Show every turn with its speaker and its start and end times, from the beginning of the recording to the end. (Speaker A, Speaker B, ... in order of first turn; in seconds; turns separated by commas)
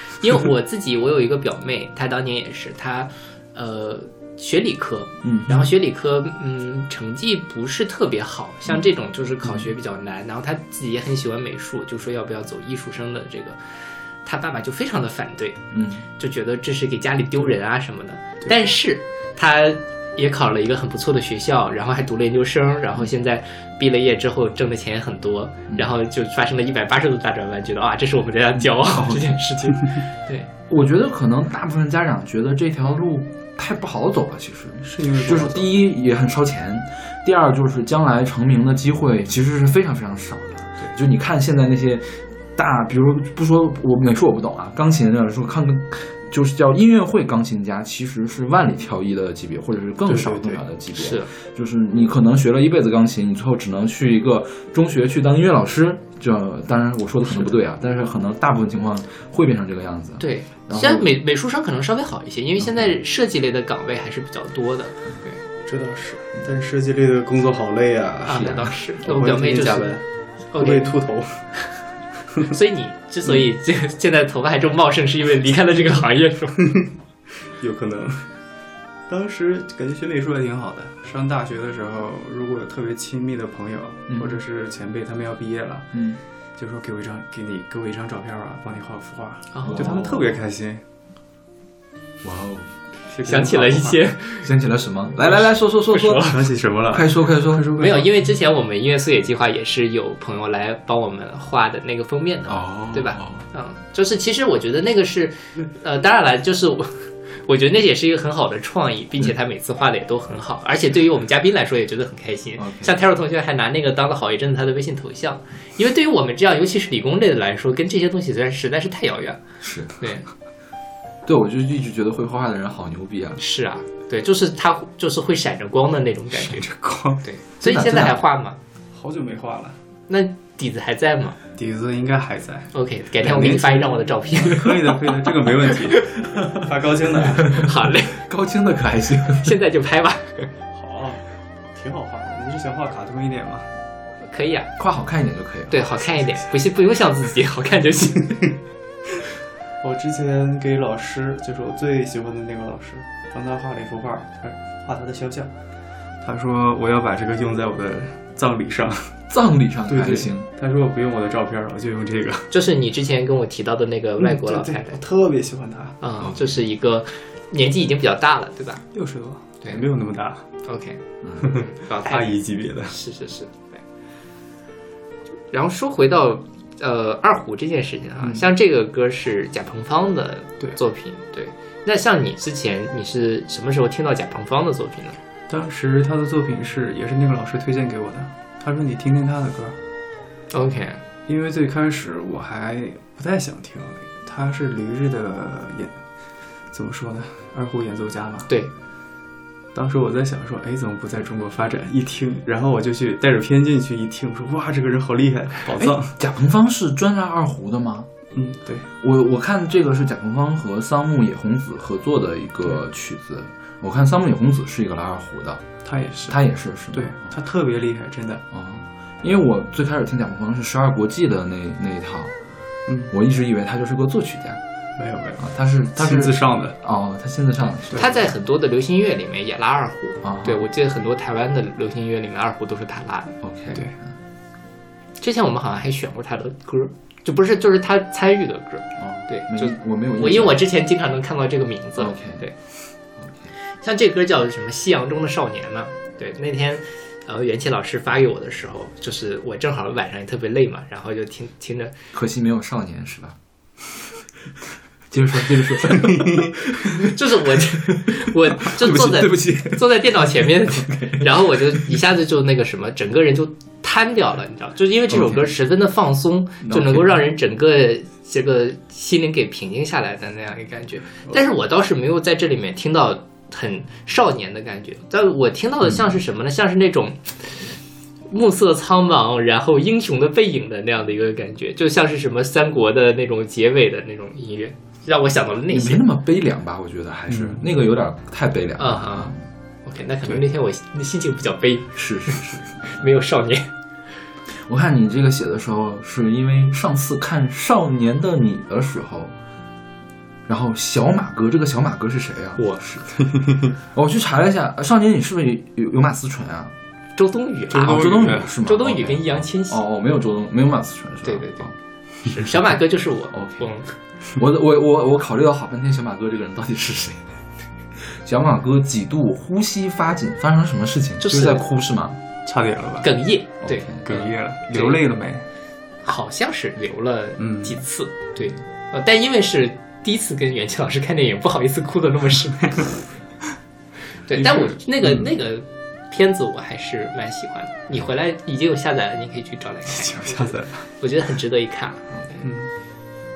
Speaker A: 0.2-13.6, Speaker B: 5.2-5.7, Speaker A: 14.2-15.7, Speaker B: 15.7-16.1, Speaker A: 16.2-30.5, Speaker B: 28.6-29.4, Speaker B: 30.7-61.1, Speaker C: 34.8-35.8, Speaker C: 50.0-50.6, Speaker A: 51.0-51.3, Speaker C: 57.3-57.5, Speaker A: 60.2-65.4, Speaker B: 62.6-62.9, Speaker C: 65.6-71.6, Speaker B: 68.3-68.6, Speaker A: 68.3-70.0, Speaker A: 70.5-71.0, Speaker A: 72.5-76.7, Speaker C: 77.6-78.3, Speaker C: 79.1-85.9, Speaker B: 84.1-84.4, Speaker B: 85.9-86.2, Speaker C: 86.6-90.8, Speaker A: 89.5-89.8, Speaker B: 89.6-90.2, Speaker B: 92.2-92.7, Speaker C: 93.1-94.0, Speaker A: 93.2-94.5, Speaker B: 94.4-96.3, Speaker A: 95.3-96.3, Speaker C: 96.2-98.1, Speaker B: 96.9-97.7, Speaker A: 97.8-119.4, Speaker B: 102.5-103.4, Speaker B: 112.6-112.9, Speaker B: 119.6-119.9, Speaker A: 120.0-120.2, Speaker B: 121.2-123.4, Speaker A: 123.4-126.6, Speaker C: 126.3-127.2, Speaker A: 127.2-128.6, Speaker B: 127.6-128.2, Speaker C: 128.9-129.8, Speaker A: 130.1-131.4, Speaker C: 131.6-137.6, Speaker A: 132.7-134.7, Speaker B: 137.4-139.5, Speaker A: 137.6-138.2, Speaker A: 139.4-140.5, Speaker C: 140.7-143.7, Speaker A: 144.3-144.7, Speaker B: 144.8-146.0, Speaker A: 145.7-148.4, Speaker C: 146.2-146.5, Speaker C: 149.8-155.5, Speaker C: 156.2-159.1, Speaker B: 159.3-160.4, Speaker C: 159.9-162.5, Speaker A: 162.5-165.0, Speaker C: 164.2-166.0, Speaker A: 166.0-168.8, Speaker C: 168.9-170.4, Speaker A: 170.6-173.8, Speaker B: 171.2-171.5, Speaker C: 171.5-172.9, Speaker A: 175.5-185.2, Speaker C: 185.5-189.8, Speaker A: 190.5-191.0, Speaker C: 191.3-196.0, Speaker C: 196.7-198.5, Speaker C: 199.7-206.1, Speaker B: 205.8-208.1, Speaker C: 208.3-208.9, Speaker B: 209.0-215.6, Speaker C: 215.8-218.4, Speaker B: 216.3-217.2, Speaker B: 218.5-222.3, Speaker C: 222.9-223.1, Speaker B: 223.1-224.6, Speaker C: 225.0-226.8, Speaker B: 225.4-228.2, Speaker A: 227.9-233.7, Speaker B: 230.2-230.6, Speaker B: 233.4-234.1, Speaker A: 235.2-242.5, Speaker B: 239.0-240.6, Speaker B: 242.0-242.5, Speaker B: 243.2-243.5, Speaker A: 243.8-251.9, Speaker B: 252.1-253.3, Speaker B: 255.1-257.1, Speaker C: 256.0-256.4, Speaker A: 257.0-277.7, Speaker B: 257.8-261.8, Speaker B: 265.1-265.5, Speaker B: 266.6-267.2, Speaker A: 278.3-286.0, Speaker B: 285.7-289.4, Speaker C: 287.3-287.7, Speaker A: 288.8-293.7, Speaker B: 291.9-292.8, Speaker B: 294.5-299.3, Speaker B: 300.5-303.1, Speaker C: 303.2-303.7, Speaker B: 303.9-306.7, Speaker A: 307.1-309.8, Speaker C: 307.7-308.5, Speaker B: 307.8-311.7, Speaker A: 311.2-311.7, Speaker A: 312.2-313.9, Speaker B: 313.3-313.6, Speaker B: 314.4-317.3, Speaker B: 318.0-322.2, Speaker A: 321.2-321.6, Speaker C: 322.4-323.1, Speaker A: 323.0-325.0, Speaker B: 323.6-324.0, Speaker C: 324.0-325.4, Speaker A: 326.0-332.9, Speaker C: 327.4-327.8, Speaker A: 334.3-342.4, Speaker C: 334.3-335.3, Speaker C: 339.9-340.9, Speaker C: 342.4-342.7